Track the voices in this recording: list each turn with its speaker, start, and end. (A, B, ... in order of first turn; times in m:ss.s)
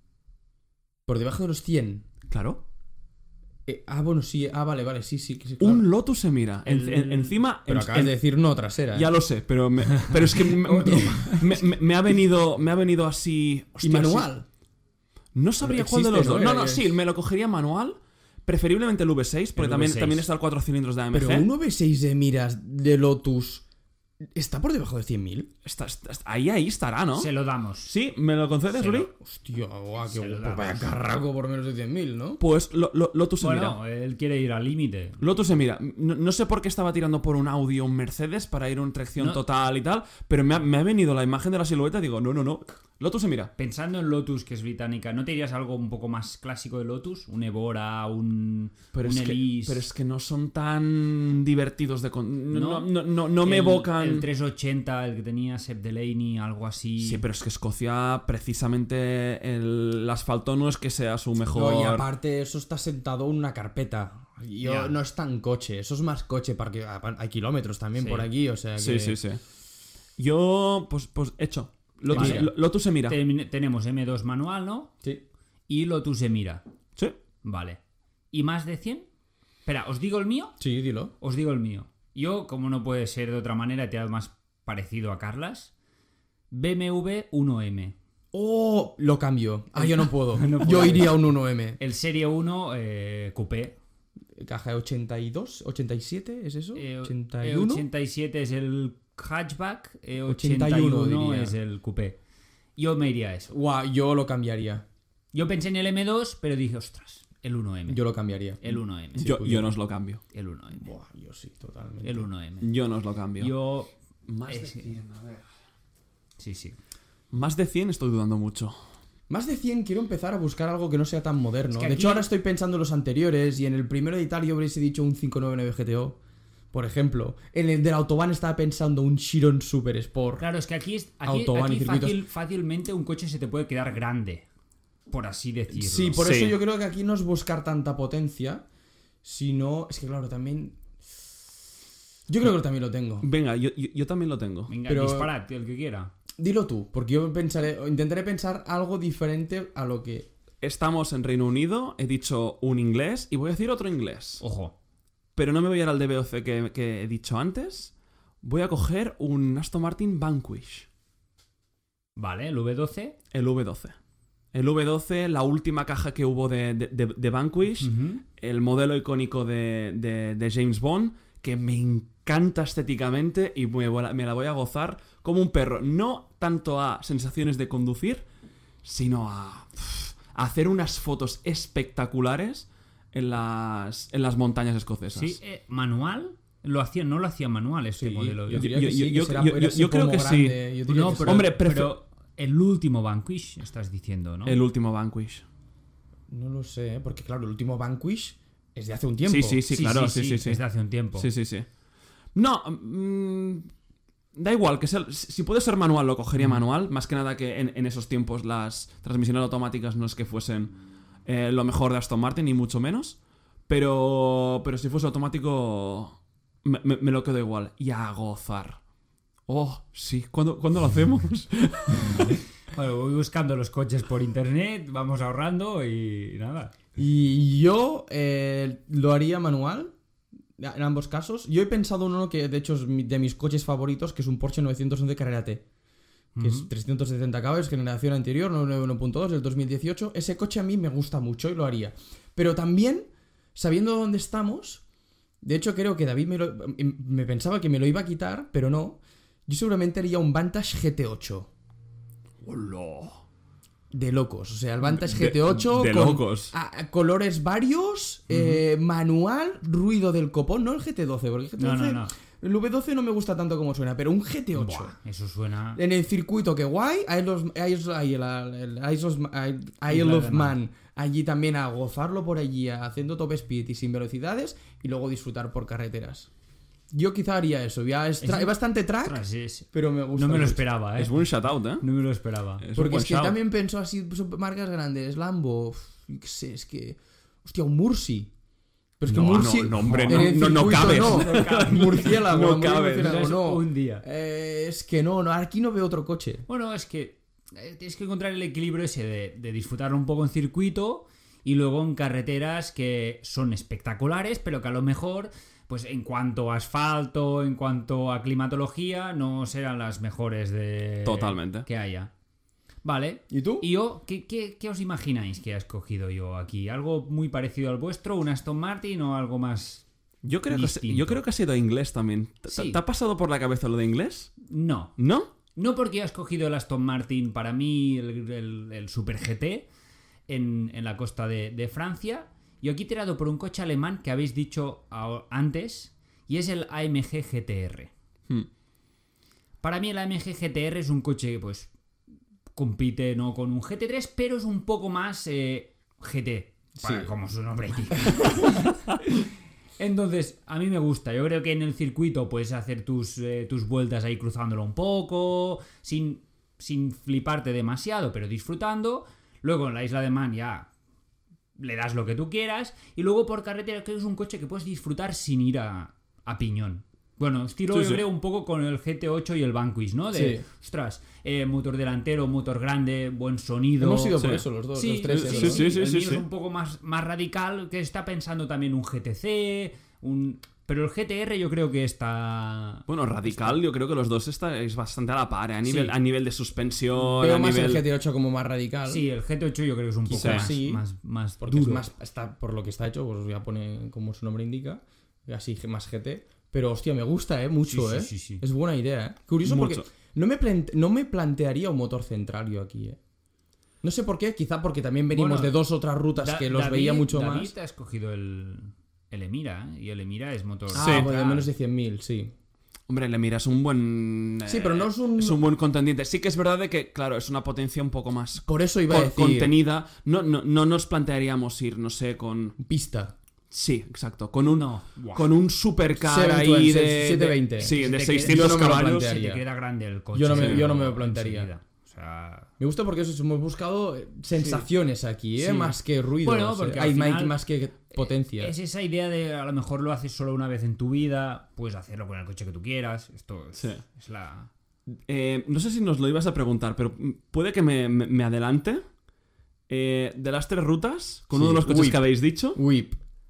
0:01.1-0:02.0 A
0:02.3-0:02.6 B
0:03.7-0:05.9 A
0:05.6-0:08.2 B
0:06.7-0:09.1 A
0:08.9-0:14.3 B
0:10.6-0:11.5 A
0:10.8-0:11.4 C
0:13.8-0:14.5 A
0:15.4-0:21.5 B
0:15.6-0:17.0 A
0:19.6-0:20.3 C
0:21.1-0:23.6 A
0:24.3-0:25.5 A
0:25.6-0:27.3 B
0:27.2-0:27.9 C
0:27.8-0:29.1 B
0:28.8-0:29.1 C
0:29.2-0:32.4 A
0:30.0-0:30.9 C
0:32.4-0:33.8 B
0:33.4-0:35.2 C
0:35.2-0:43.5 B
0:39.2-0:39.4 C
0:43.6-0:49.8 C
0:48.9-0:54.3 B
0:52.5-0:57.2 C
0:57.0-1:02.1 B
1:01.5-1:09.2 A
1:04.6-1:04.9 C
1:08.0-1:08.3 C
1:08.8-1:09.4 B
1:10.2-1:13.2 B
1:12.1-1:12.5 A
1:12.1-1:14.9 C
1:15.7-1:16.6 C
1:17.4-1:17.8 C
1:18.3-1:19.1 C
1:19.7-1:20.6 C
1:20.6-1:21.1 A
1:21.2-1:25.7 C
1:26.5-1:28.0 C
1:28.3-1:31.8 A
1:29.8-1:31.3 C
1:31.8-1:33.8 C
1:34.4-1:37.8 A
1:36.8-1:42.2 C
1:40.3-1:41.6 A
1:42.8-1:43.5 C
1:43.5-1:44.8 A
1:45.3-1:48.0 C
1:47.9-1:48.6 A
1:48.6-1:49.4 C
1:49.1-1:49.7 A
1:49.2-1:50.2 B
1:50.3-1:50.9 C
1:50.7-1:52.3 A
1:52.0-1:52.7 C
1:52.6-1:53.5 B
1:53.4-1:53.9 C
1:54.3-1:55.4 B
1:54.5-1:54.9 C
1:56.4-1:56.8 C
1:57.3-1:58.8 B
1:59.3-2:06.2 A
2:01.7-2:02.3 C
2:06.7-2:10.4 A
2:10.4-2:14.5 C
2:11.2-2:12.2 A
2:15.1-2:16.2 C
2:15.7-2:18.6 A
2:16.1-2:16.6 B
2:19.2-2:20.8 A
2:22.3-2:23.3 A
2:23.2-2:24.7 B
2:24.7-2:26.1 C
2:24.8-2:25.3 A
2:26.4-2:30.3 A
2:30.6-2:34.4 B
2:34.4-2:34.7 C
2:35.4-2:37.9 B
2:38.4-2:40.9 B
2:42.2-2:43.2 C
2:43.3-2:44.0 B
2:44.5-2:58.3 B
2:47.8-2:48.2 C
2:58.8-3:05.4 B
3:05.2-3:08.7 C
3:08.0-3:11.5 A
3:08.5-3:10.6 B
3:10.9-3:14.6 C
3:11.2-3:12.0 B
3:14.5-3:15.4 B
3:16.3-3:19.6 A
3:19.2-3:20.6 B
3:19.7-3:21.3 C
3:21.2-3:21.7 B
3:22.4-3:23.7 B
3:24.4-3:30.7 B
3:31.3-3:38.8 B
3:39.5-3:42.4 B
3:42.7-3:46.7 C
3:47.0-3:49.9 A
3:50.6-3:55.6 A
3:56.4-3:56.7 C
3:56.4-4:04.8 A
4:05.4-4:11.5 A
4:12.4-4:13.2 B
4:13.9-4:24.9 A
4:14.8-4:16.5 B
4:18.3-4:18.6 C
4:21.6-4:22.1 C
4:24.6-4:25.8 C
4:25.8-4:36.3 A
4:29.9-4:30.6 C
4:36.9-4:40.6 A
4:38.2-4:41.2 C
4:41.0-4:41.8 B
4:41.8-4:42.6 C
4:42.6-4:43.4 B
4:42.8-4:48.3 A
4:49.0-4:56.5 A
4:49.1-4:53.2 B
4:49.7-4:52.2 C
4:53.0-4:54.0 C
4:56.5-5:12.1 C
5:11.0-5:11.7 B
5:12.8-5:19.9 C
5:13.3-5:13.7 A
5:20.2-5:24.3 B
5:20.5-5:21.2 C
5:22.5-5:22.8 C
5:24.5-5:25.0 C
5:25.0-5:25.3 B
5:25.6-5:29.7 C
5:30.3-5:37.9 C
5:39.6-5:41.7 C
5:42.6-5:48.9 C
5:46.8-5:47.1 A
5:49.8-6:00.7 C
6:01.6-6:23.6 C
6:07.7-6:08.0 B
6:10.1-6:10.4 A
6:13.8-6:15.7 A
6:14.2-6:14.4 B
6:15.1-6:16.2 B
6:22.9-6:27.8 B
6:25.6-6:26.0 C
6:27.0-6:29.1 A
6:28.9-6:31.8 C
6:30.1-6:30.8 A
6:30.1-6:30.5 B
6:31.4-6:43.0 A
6:37.7-6:38.4 C
6:39.4-6:39.9 B
6:43.8-6:47.5 A
6:45.1-6:45.6 C
6:46.2-6:51.5 C
6:50.7-6:51.1 B
6:50.7-6:52.3 A
6:52.9-7:02.6 B
6:54.5-6:55.4 A
6:58.5-6:59.5 A
7:02.6-7:03.1 A
7:03.5-7:09.1 B
7:04.5-7:05.4 C
7:06.0-7:09.4 A
7:07.6-7:12.5 C
7:10.1-7:11.5 A
7:10.3-7:10.7 B
7:12.6-7:18.6 A
7:14.4-7:14.6 B
7:15.4-7:17.4 C
7:18.0-7:24.5 C
7:23.6-7:23.8 B
7:25.1-7:28.8 B
7:29.7-7:32.6 B
7:31.3-7:33.0 A